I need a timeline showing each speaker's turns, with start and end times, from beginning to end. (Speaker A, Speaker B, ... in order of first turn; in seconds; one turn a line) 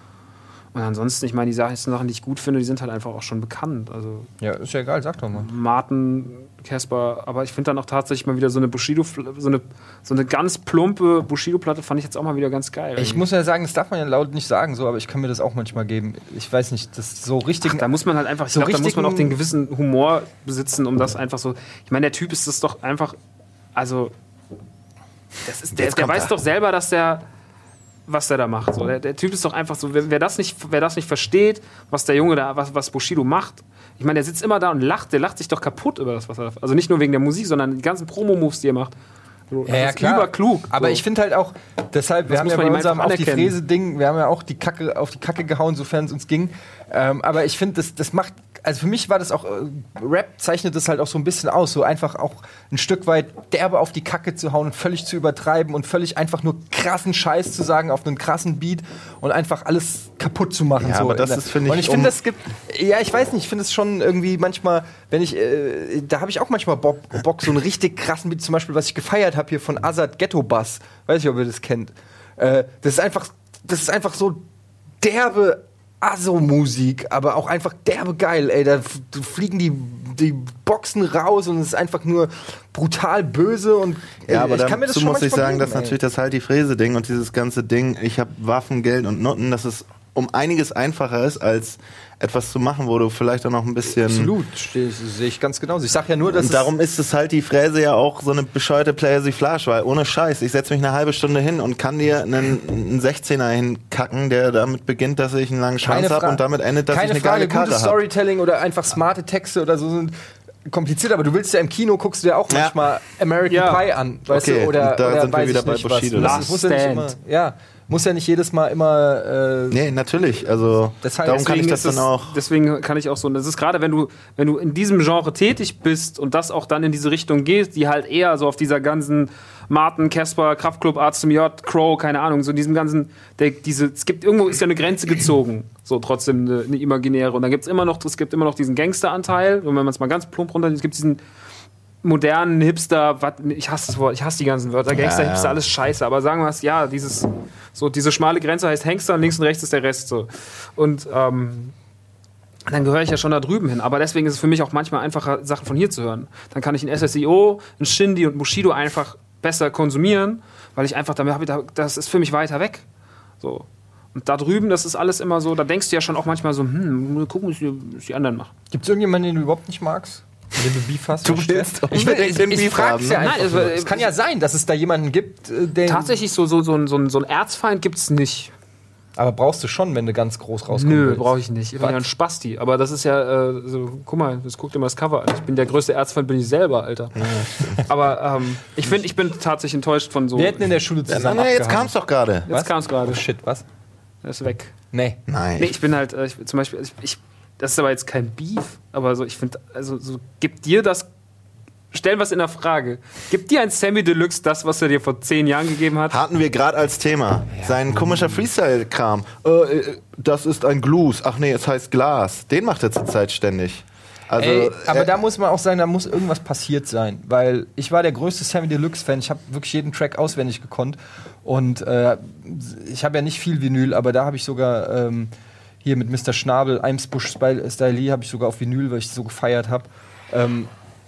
Speaker A: 0.7-4.3
Speaker B: 4.4-5.5
Speaker A: 5.3-13.2
Speaker B: 12.9-17.9
Speaker A: 17.6-23.2
Speaker B: 18.5-19.4
Speaker A: 23.7-24.1
Speaker A: 25.4-27.2
Speaker C: 25.7-26.3
Speaker A: 28.1-38.9
Speaker A: 39.5-41.0
Speaker B: 39.7-74.4
Speaker A: 42.3-43.5
Speaker C: 60.8-62.1
Speaker B: 75.0-86.0
Speaker C: 84.3-94.3
Speaker B: 94.0-96.7
Speaker C: 96.3-108.0
Speaker B: 105.8-110.1
Speaker B: 110.7-119.8
Speaker A: 113.5-113.8
Speaker C: 114.3-116.5
Speaker A: 116.2-117.1
Speaker C: 119.7-122.4
Speaker B: 121.0-121.7
Speaker A: 121.2-141.2
Speaker A: 142.0-151.7
Speaker C: 144.9-145.6
Speaker A: 152.7-162.8
Speaker A: 163.4-168.5
Speaker B: 168.7-176.2
Speaker C: 171.2-173.5
Speaker A: 173.2-174.1
Speaker A: 175.8-178.5
Speaker B: 179.2-182.0
Speaker A: 180.7-187.2
Speaker C: 187.2-187.8
Speaker A: 187.8-190.6
Speaker B: 190.3-191.9
Speaker C: 191.1-192.5
Speaker B: 192.4-193.6
Speaker A: 192.5-193.2
Speaker A: 194.2-194.8
Speaker B: 194.9-195.2
Speaker C: 195.3-195.8
Speaker A: 195.6-201.1
Speaker A: 201.9-206.2
Speaker C: 206.1-215.1
Speaker B: 207.6-208.4
Speaker B: 214.4-225.3
Speaker B: 225.8-230.7